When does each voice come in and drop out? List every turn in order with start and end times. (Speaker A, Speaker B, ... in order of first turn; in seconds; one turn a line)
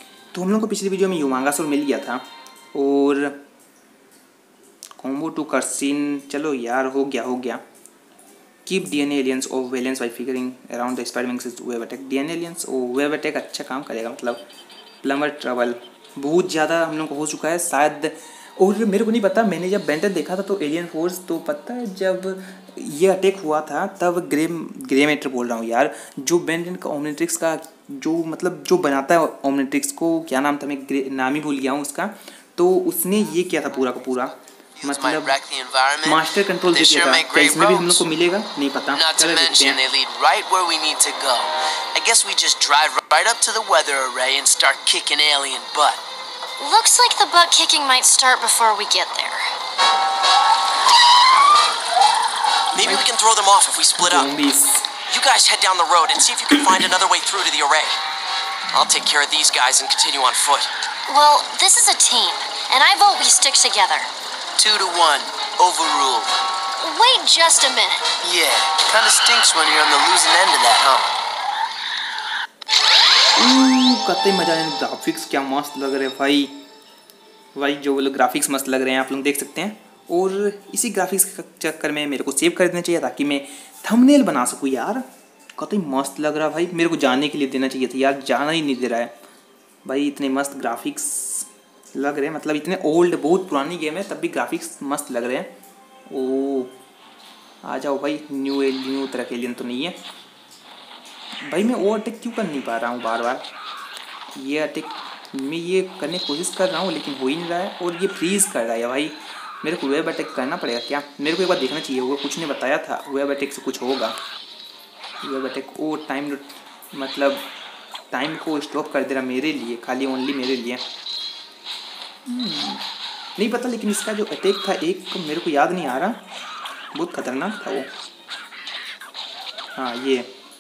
Speaker A: 0.3-3.4
Speaker A: 5.0-7.6
Speaker A: 8.7-14.4
Speaker A: 15.0-35.3
Speaker B: 34.8-38.0
Speaker A: 36.0-39.8
Speaker B: 38.9-46.0
Speaker C: 46.6-49.5
Speaker B: 52.7-54.3
Speaker A: 52.7-53.0
Speaker A: 54.0-54.9
Speaker B: 55.1-58.0
Speaker B: 58.7-60.7
Speaker C: 61.1-64.1
Speaker B: 64.6-66.3
Speaker C: 66.8-68.0
Speaker B: 68.2-71.1
Speaker A: 73.3-76.5
Speaker A: 77.5-85.0
Speaker A: 85.6-89.2
Speaker A: 89.8-95.5
Speaker A: 96.1-96.7
Speaker A: 97.6-100.0
Speaker A: 101.4-103.5
Speaker A: 104.3-114.2
Speaker A: 115.2-117.5
Speaker A: 118.1-120.8
Speaker A: 122.2-122.8
Speaker A: 123.4-126.2
Speaker A: 126.9-127.9
Speaker A: 129.8-130.3